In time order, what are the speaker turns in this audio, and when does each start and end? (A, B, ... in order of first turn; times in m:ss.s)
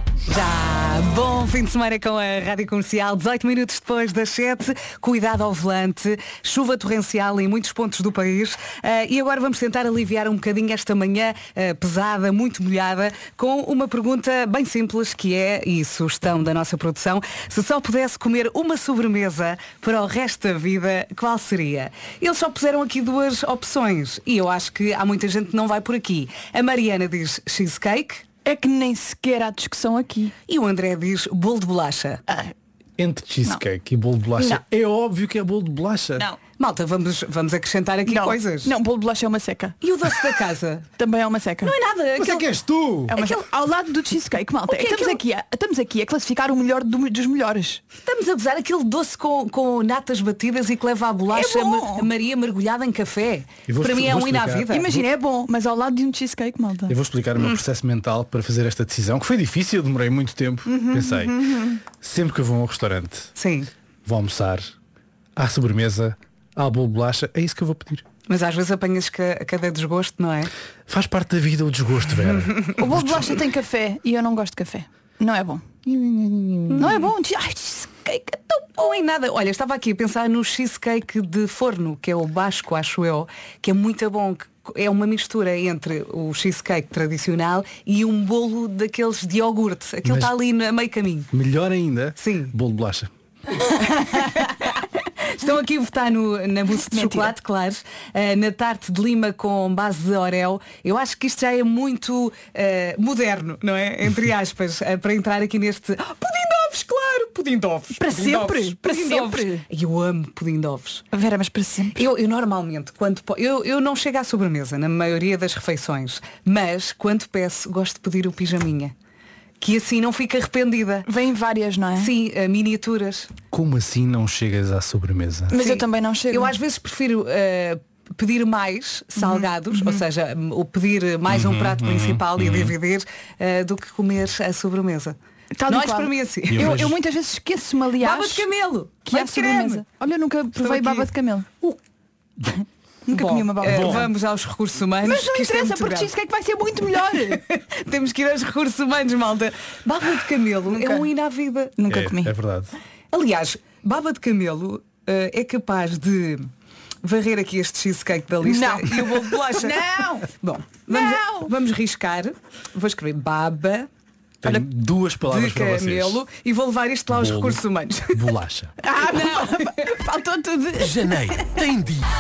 0:00.3-0:28.2 A
0:28.4-0:30.3 B
0:30.5-0:32.2 A
0:33.0-0:36.2 C
0:36.6-0:38.7 A
0:38.1-0:39.8 B
0:39.8-0:40.9 A
0:41.0-0:42.2 B
0:41.6-0:42.5 A
0:42.2-0:43.1 C
0:43.1-0:43.4 A
0:43.1-0:47.8 B
0:44.7-0:45.2 A
0:48.0-0:54.9 A
0:51.3-0:52.1 B
0:53.7-0:55.0 C
0:54.7-0:57.0 B
0:56.9-1:01.4 C
1:00.6-1:01.8 B
1:01.9-1:03.3 C
1:03.4-1:03.7 A
1:04.0-1:04.7 C
1:05.4-1:08.0 C
1:08.3-1:10.5 A
1:10.9-1:13.4 C
1:12.8-1:18.4 B
1:16.7-1:17.1 A
1:18.1-1:31.3 A
1:30.0-1:30.3 C
1:31.3-1:33.1 C
1:32.2-1:32.5 A
1:33.9-1:34.7 A
1:35.3-1:51.0 A
1:36.9-1:37.3 B
1:48.0-1:49.6 B
1:51.1-1:52.0 B
1:52.0-1:58.9 A
1:59.6-2:01.1 A
2:01.0-2:02.2 B
2:02.0-2:03.3 A
2:03.5-2:05.5 C
2:05.5-2:06.6 B
2:05.6-2:15.2 A
2:09.2-2:10.0 B
2:11.3-2:12.8 C
2:15.5-2:18.5 B
2:15.7-2:17.0 A
2:16.5-2:17.0 C
2:18.0-2:19.8 A
2:19.0-2:21.7 B
2:20.6-2:21.1 A
2:22.6-2:24.1 B
2:23.1-2:26.1 A
2:23.6-2:24.0 C
2:25.0-2:27.4 B
2:27.4-2:31.8 A
2:30.7-2:31.1 B
2:31.8-2:32.3 B
2:31.9-2:32.8 C
2:33.1-2:36.5 A
2:37.0-2:39.8 A
2:38.4-2:40.3 B
2:40.3-2:43.9 A
2:40.9-2:41.5 B
2:44.4-2:46.2 C
2:44.4-2:44.7 B
2:45.3-2:48.2 A
2:47.1-2:47.6 C
2:48.1-2:48.8 C
2:48.8-2:51.3 B
2:49.0-2:49.7 A
2:50.8-2:52.1 C